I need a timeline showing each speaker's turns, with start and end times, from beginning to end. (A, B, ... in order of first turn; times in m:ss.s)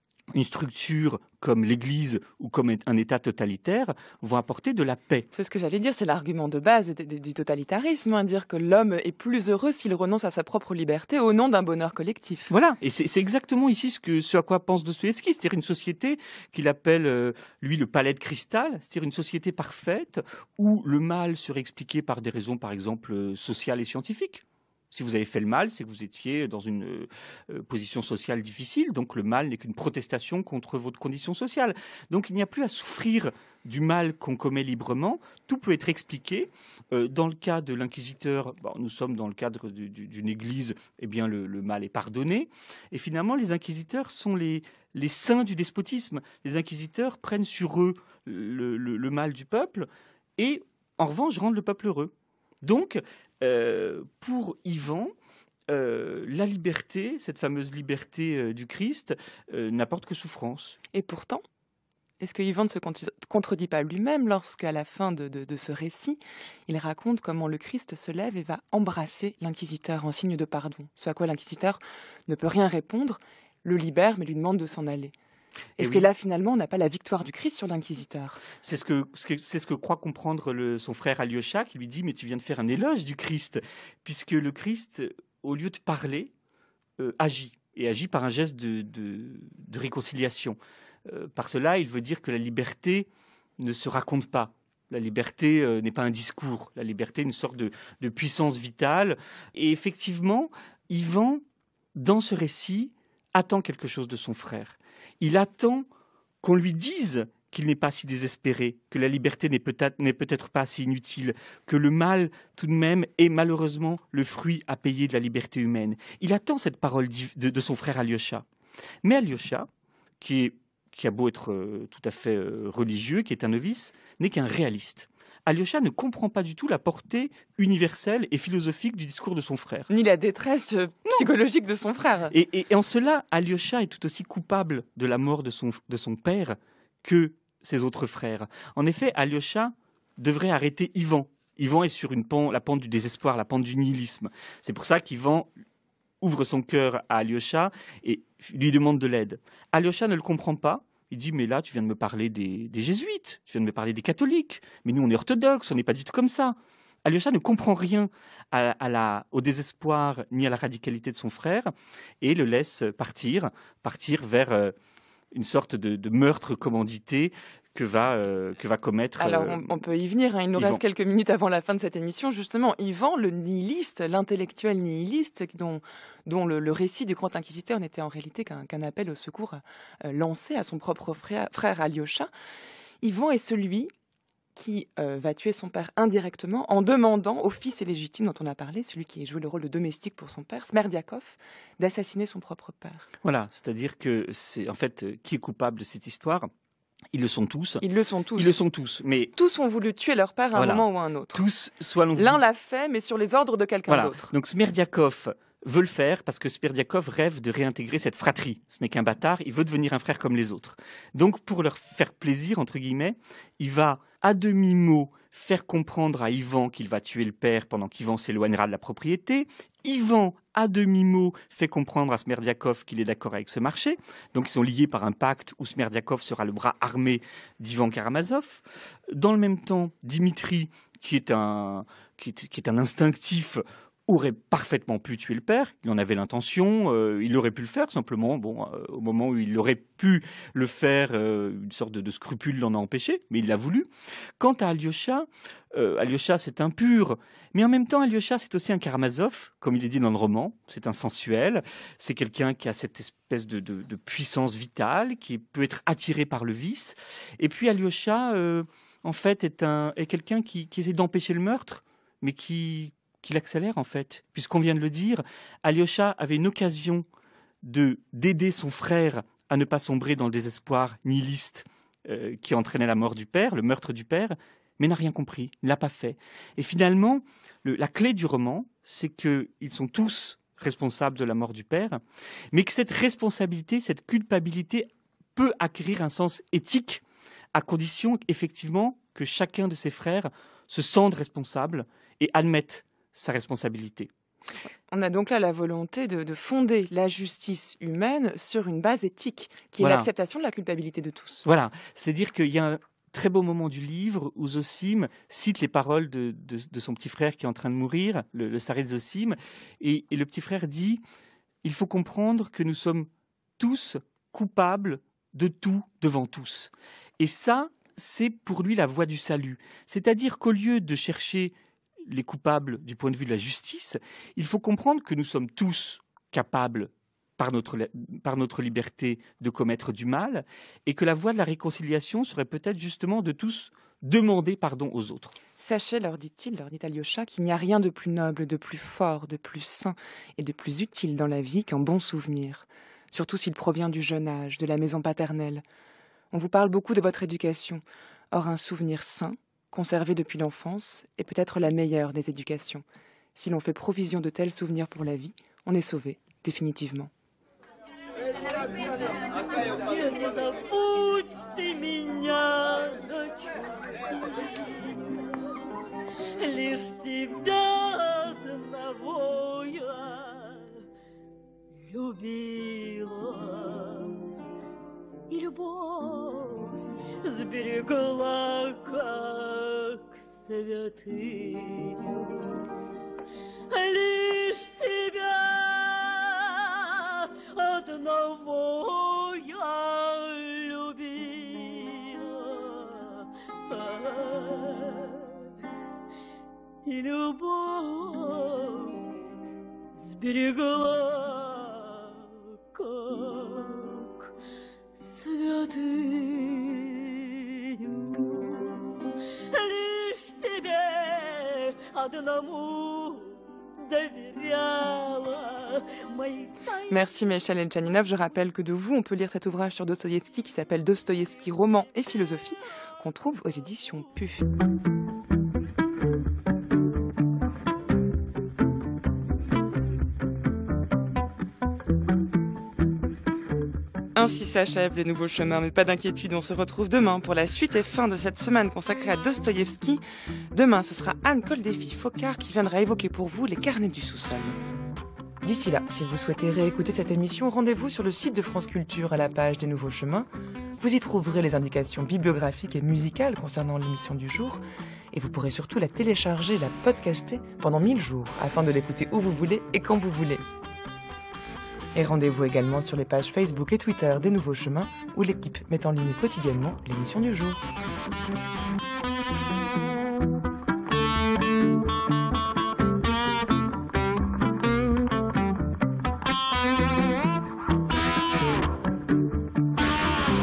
0:00.3-0:05.3 A
0:05.3-0:12.5 B
0:12.5-0:55.1 A
0:55.7-1:00.8 A
1:00.9-1:01.4 B
1:02.2-1:15.1 B
1:15.8-1:18.4 B
1:15.8-1:16.1 A
1:18.6-1:26.3 A
1:27.0-1:33.1 A
1:33.6-1:41.4 A
1:42.0-1:45.8 A
1:46.4-1:58.4 A
1:59.0-1:59.7 A
2:00.2-2:09.9 A
2:09.9-2:12.3 B
2:12.3-2:25.5 A
2:26.2-2:44.7 A
2:45.3-2:49.7 A
2:49.2-3:02.3 B
3:03.0-3:03.9 B
3:04.6-3:13.0 B
3:13.2-3:16.5 A
3:17.1-3:17.8 A
3:17.8-3:18.6 B
3:18.4-3:19.3 A
3:19.4-3:21.4 B
3:20.6-3:22.4 A
3:22.2-3:24.3 B
3:23.9-4:03.9 A
4:04.4-4:27.0 A
4:27.6-4:42.0 A
4:42.5-4:47.0 A
4:47.5-4:54.1 A
4:54.9-5:01.4 B
4:59.8-5:00.1 A
5:01.4-5:11.0 A
5:11.6-5:13.1 A
5:13.6-5:21.5 A
5:22.0-5:35.3 A
5:35.6-5:45.6 B
5:46.3-5:52.8 B
5:53.3-5:57.1 B
5:58.8-6:05.0 C
6:06.4-6:10.7 C
6:11.9-6:14.2 C
6:15.3-6:22.6 C
6:23.7-6:35.3 C
6:36.8-6:39.0 C
6:40.0-6:44.3 C
6:45.0-6:48.9 C
6:49.5-6:57.0 C
6:56.9-7:04.4 B
7:14.2-7:20.0 B
7:20.5-7:24.6 B
7:25.4-7:30.3 B
7:30.8-7:40.4 B
7:41.9-7:47.6 B